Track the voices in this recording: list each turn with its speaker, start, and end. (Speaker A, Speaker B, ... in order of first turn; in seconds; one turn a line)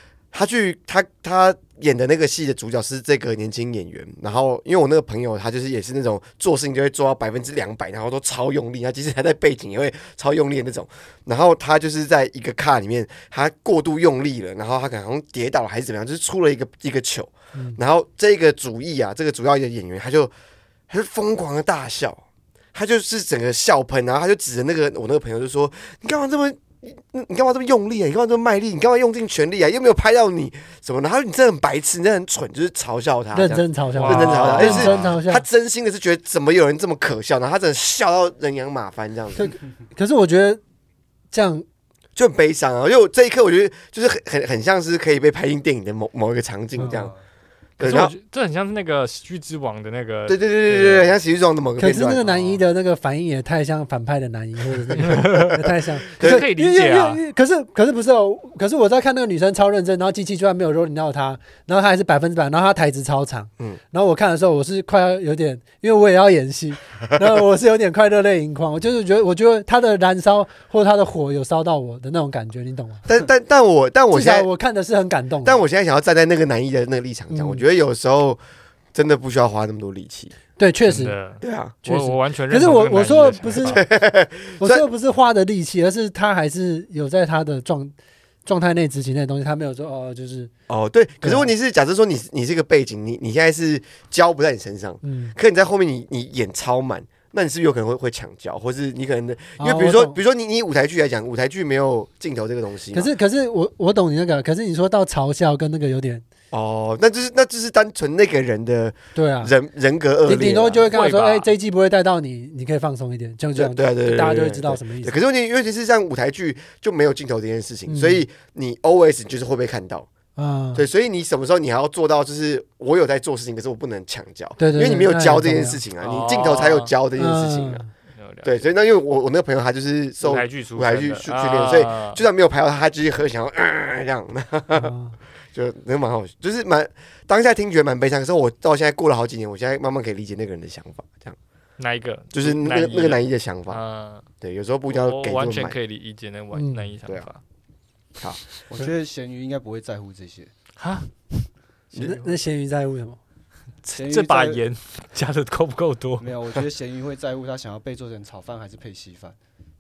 Speaker A: 0.3-20.3
Speaker A: 20.9-22.2
Speaker A: 22.7-39.5
Speaker B: 33.3-35.4
Speaker C: 34.0-35.2
Speaker B: 39.4-40.6
Speaker B: 41.3-41.7
Speaker A: 42.2-47.1
Speaker B: 46.8-47.1
Speaker D: 46.8-47.2
Speaker A: 47.8-48.1
Speaker C: 47.8-51.1
Speaker A: 50.3-52.2
Speaker B: 51.8-73.1
Speaker C: 52.2-52.5
Speaker C: 55.0-55.6
Speaker A: 56.2-56.4
Speaker C: 56.2-57.2
Speaker A: 73.1-74.5
Speaker B: 74.1-75.6
Speaker A: 75.4-78.4
Speaker B: 77.3-77.6
Speaker A: 78.9-80.3
Speaker B: 80.6-81.2
Speaker C: 80.9-83.8
Speaker A: 81.4-81.8
Speaker B: 81.8-83.8
Speaker A: 83.6-84.8
Speaker B: 84.6-87.9
Speaker B: 88.4-90.5
Speaker A: 90.7-103.1
Speaker B: 91.2-91.5
Speaker B: 95.0-95.3
Speaker B: 99.6-100.2
Speaker B: 102.9-106.2
Speaker A: 106.5-110.9
Speaker B: 109.2-109.5
Speaker B: 110.2-115.2
Speaker C: 110.9-111.5
Speaker A: 113.6-120.1
Speaker B: 117.9-118.3
Speaker B: 120.4-120.8
Speaker A: 120.7-127.8
Speaker B: 124.6-125.8
Speaker C: 126.0-126.9
Speaker B: 127.2-127.9
Speaker C: 128.1-128.6
Speaker A: 128.4-134.9
Speaker C: 130.2-132.2
Speaker B: 134.7-135.2
Speaker A: 135.5-141.3
Speaker C: 141.8-144.2
Speaker A: 142.3-143.8
Speaker A: 144.4-145.8
Speaker C: 144.9-147.4
Speaker B: 146.5-146.9
Speaker D: 148.7-150.5
Speaker C: 150.8-151.1
Speaker B: 151.9-153.2
Speaker C: 153.8-156.3
Speaker D: 153.9-154.6
Speaker D: 156.2-159.3